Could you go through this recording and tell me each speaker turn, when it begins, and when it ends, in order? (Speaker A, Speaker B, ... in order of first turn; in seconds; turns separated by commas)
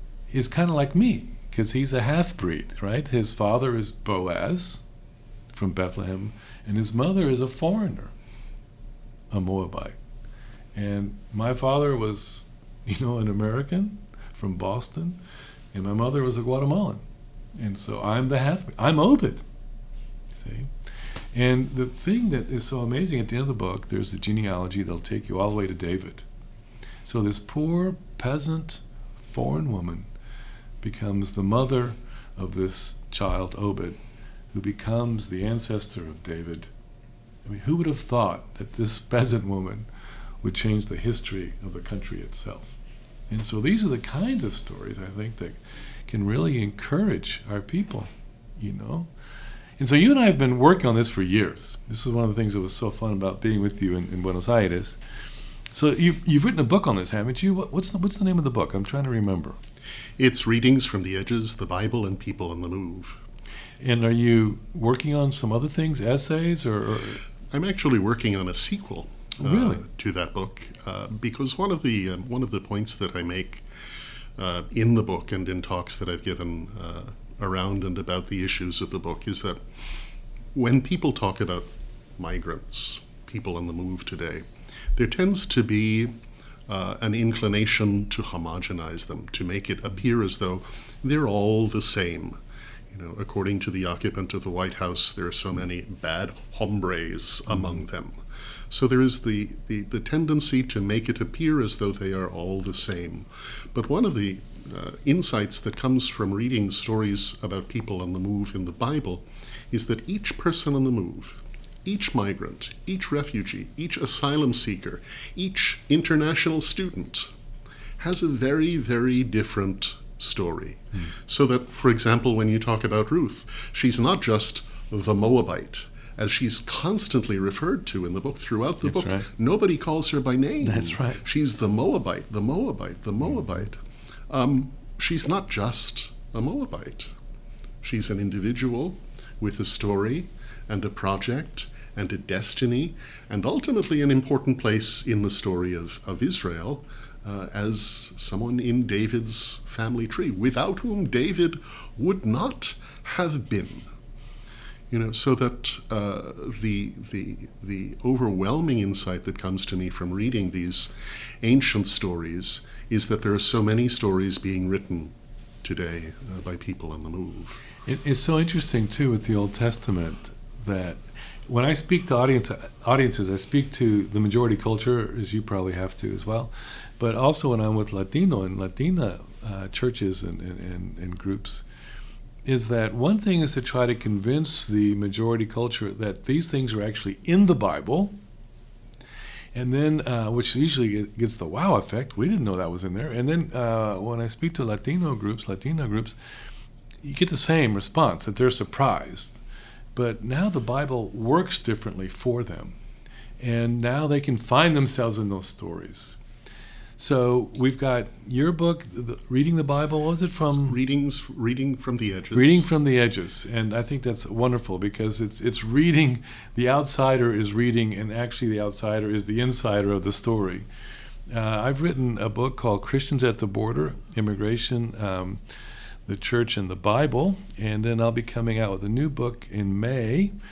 Speaker A: 0.3-4.8, Speaker A: 5.5-8.1, Speaker A: 9.3-10.0, Speaker A: 10.7-15.2, Speaker A: 15.7-17.0, Speaker A: 17.6-19.4, Speaker A: 20.3-20.7, Speaker A: 21.3-26.2, Speaker A: 27.0-30.1, Speaker A: 30.8-34.0, Speaker A: 34.5-36.7, Speaker A: 37.4-39.9, Speaker A: 40.4-42.7, Speaker A: 43.3-49.1, Speaker A: 49.8-55.0, Speaker A: 55.7-59.6, Speaker B: 60.2-63.2, Speaker A: 63.8-67.2, Speaker B: 67.5-73.7, Speaker A: 69.4-69.8, Speaker B: 74.4-79.6, Speaker B: 80.5-84.4, Speaker B: 85.0-86.1, Speaker B: 86.7-92.4, Speaker B: 92.9-98.1, Speaker B: 98.7-117.3, Speaker B: 118.0-133.8, Speaker A: 128.8-129.3, Speaker A: 130.6-131.2, Speaker B: 134.3-137.1, Speaker B: 137.8-153.9, Speaker B: 154.9-167.6, Speaker A: 167.8-181.6, Speaker A: 182.4-188.1, Speaker A: 189.5-196.2, Speaker A: 197.0-199.4, Speaker A: 199.9-202.8, Speaker A: 203.4-206.2, Speaker A: 207.0-210.8, Speaker B: 210.5-212.7, Speaker A: 212.3-220.7, Speaker A: 221.3-225.4, Speaker A: 226.1-230.3